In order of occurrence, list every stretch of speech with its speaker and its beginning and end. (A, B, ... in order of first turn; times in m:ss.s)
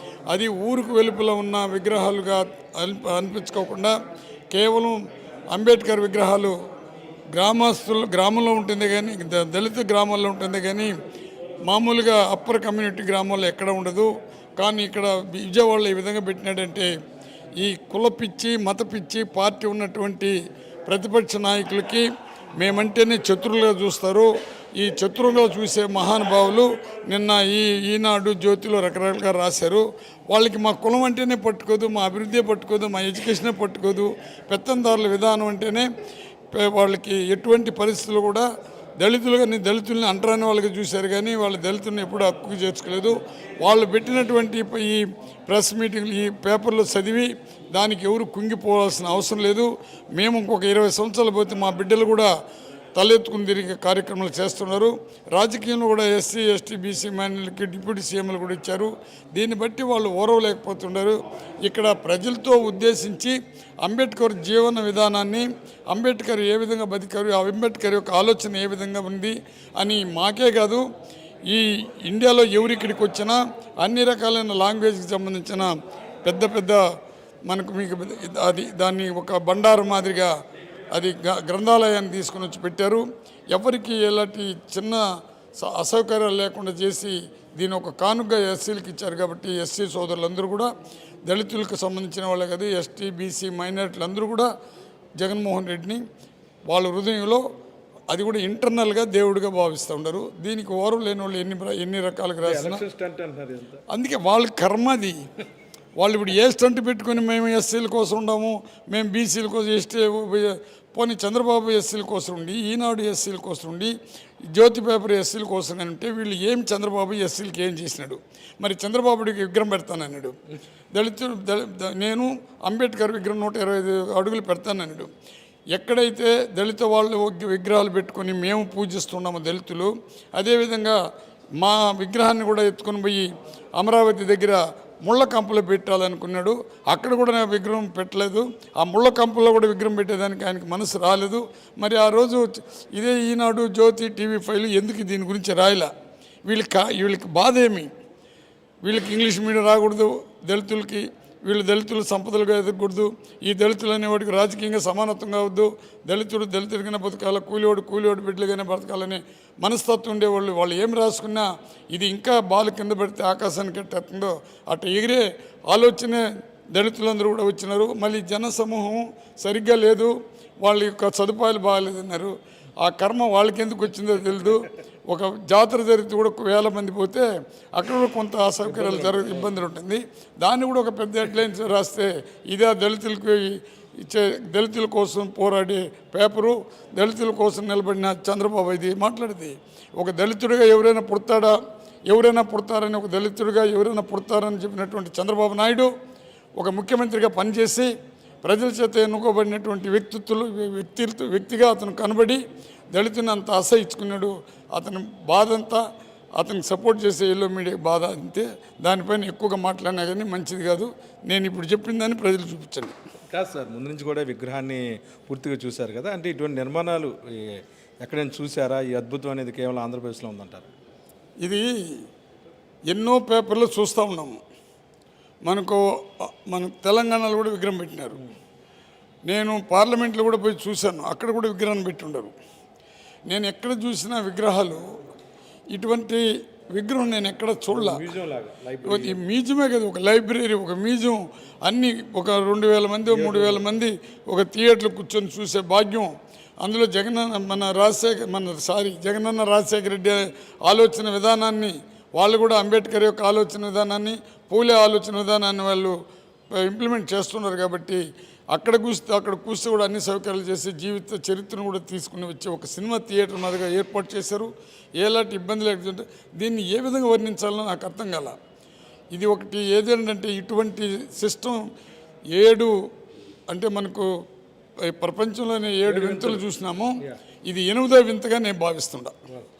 0:00.3-0:03.9 A
0:04.5-0:05.0 A
0:05.5-0:06.6 A
0:07.3-0:10.9 A
0:11.6-0:16.9 A
0:17.6-0:20.3 A
0:20.9-0:22.1 A
0:22.6-0:35.9 A
0:36.5-0:38.5 A
0:39.0-0:52.3 A
0:53.0-1:10.8 A
1:11.5-1:15.7 A
1:16.2-1:16.8 A
1:17.5-1:20.3 A
1:20.9-1:25.0 A
1:25.6-1:30.7 A
1:31.3-1:34.5 A
1:35.2-1:36.0 A
1:36.7-1:37.4 A
1:38.1-1:42.8 A
1:42.4-1:43.8 B
1:43.9-1:45.2 A
1:46.0-1:53.9 A
1:54.5-2:00.4 A
2:00.9-2:05.1 A
2:05.7-2:11.0 A
2:11.6-2:25.9 A
2:26.4-2:27.9 A
2:28.8-2:46.2 A
2:46.8-3:11.6 A
2:58.7-2:59.5 B
3:12.1-3:15.9 A
3:16.6-3:17.9 A
3:18.4-3:22.4 A
3:22.9-3:25.8 A
3:26.4-3:32.9 A
3:33.3-3:40.7 B
3:41.4-3:41.7 A
3:42.9-3:44.4 A
3:45.5-3:48.2 A
3:49.3-3:52.3 A
3:53.3-3:54.9 A
3:55.7-3:58.0 A
3:57.7-3:59.2 B
3:58.8-4:16.0 A
4:03.1-4:03.7 B
4:16.6-4:18.0 A
4:18.5-4:28.4 A
4:29.2-4:31.6 A
4:32.3-4:32.7 A
4:33.5-4:34.1 A
4:34.9-4:36.9 A
4:35.9-4:36.4 B
4:37.5-4:39.1 A